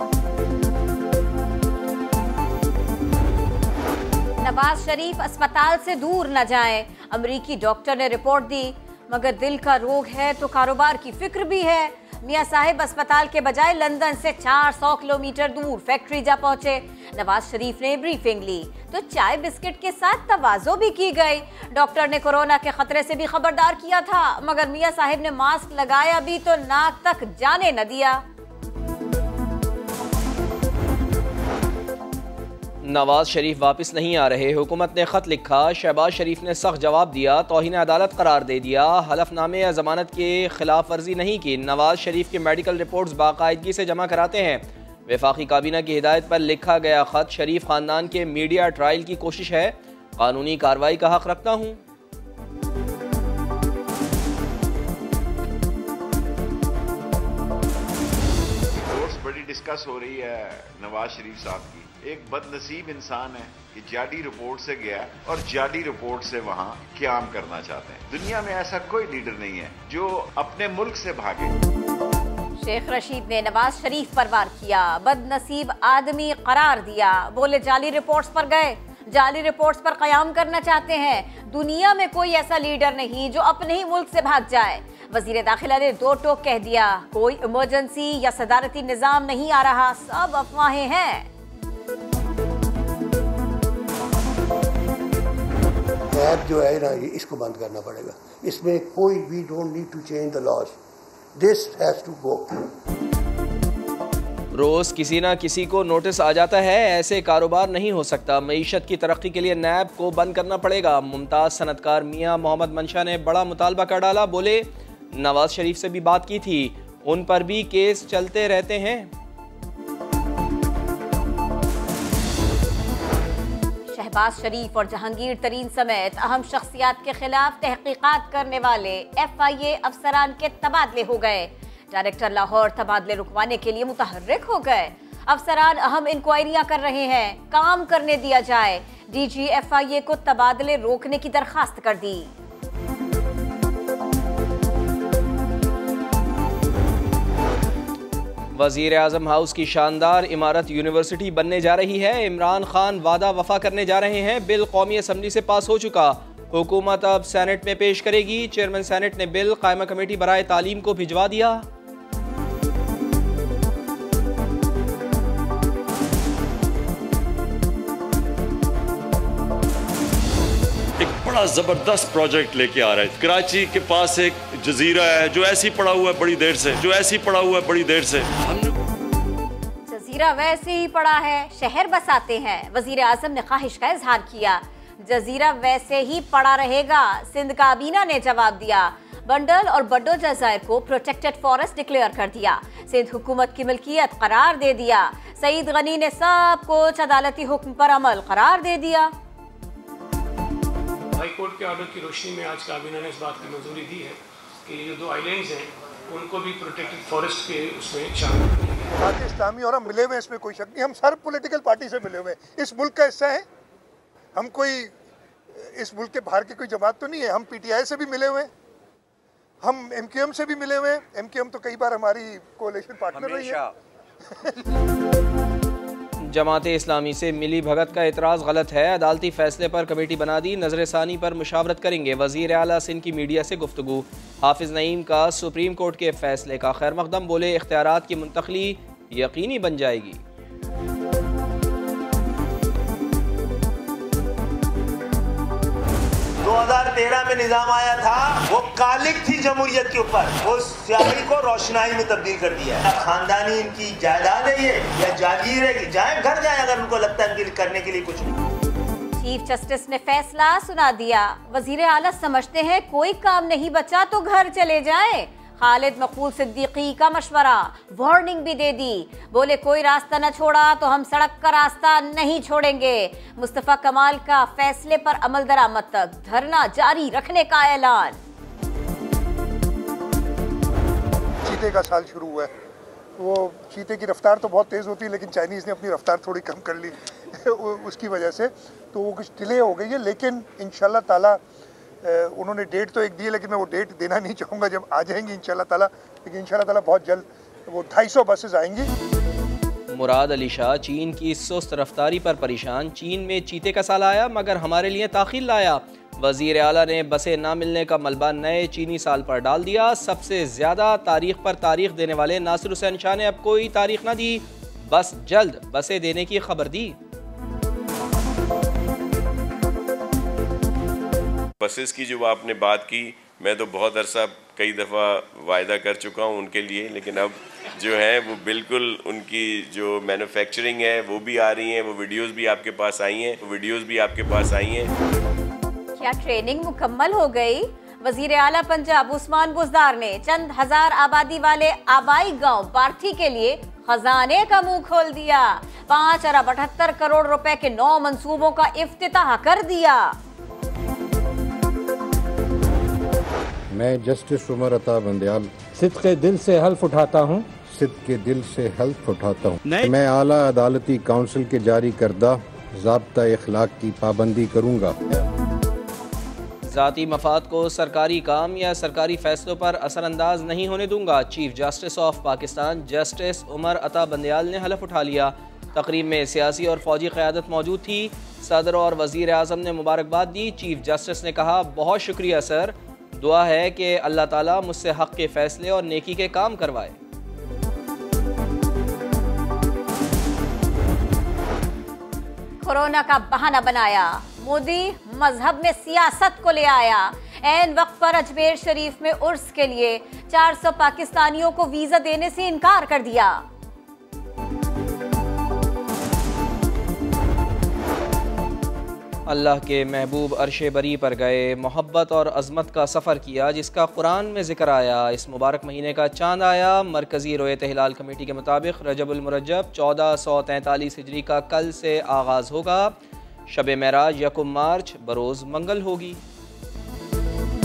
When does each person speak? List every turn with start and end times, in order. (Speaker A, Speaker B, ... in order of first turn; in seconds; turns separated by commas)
Speaker A: 4.4-28.2, Speaker B: 32.8-51.8, Speaker C: 58.8-71.5, Speaker A: 72.6-91.3, Speaker D: 96.1-100.8, Speaker D: 101.3-102.7, Speaker B: 104.5-119.1, Speaker A: 123.9-142.3, Speaker B: 148.5-161.7, Speaker E: 171.0-178.7, Speaker A: 179.9-199.1, Speaker F: 201.2-208.9, Speaker G: 209.0-213.4, Speaker G: 214.3-214.9, Speaker G: 215.6-218.5, Speaker G: 219.6-223.7, Speaker B: 226.2-240.2, Speaker H: 246.4-258.3, Speaker A: 259.2-278.2, Speaker G: 281.4-282.5, Speaker G: 283.2-291.4, Speaker G: 292.0-298.9, Speaker B: 299.9-317.0, Speaker I: 321.6-334.9, Speaker A: 336.0-350.2, Speaker J: 353.7-365.0, Speaker B: 366.7-387.0, Speaker A: 392.6-403.4, Speaker B: 409.3-423.0, Speaker B: 423.5-426.2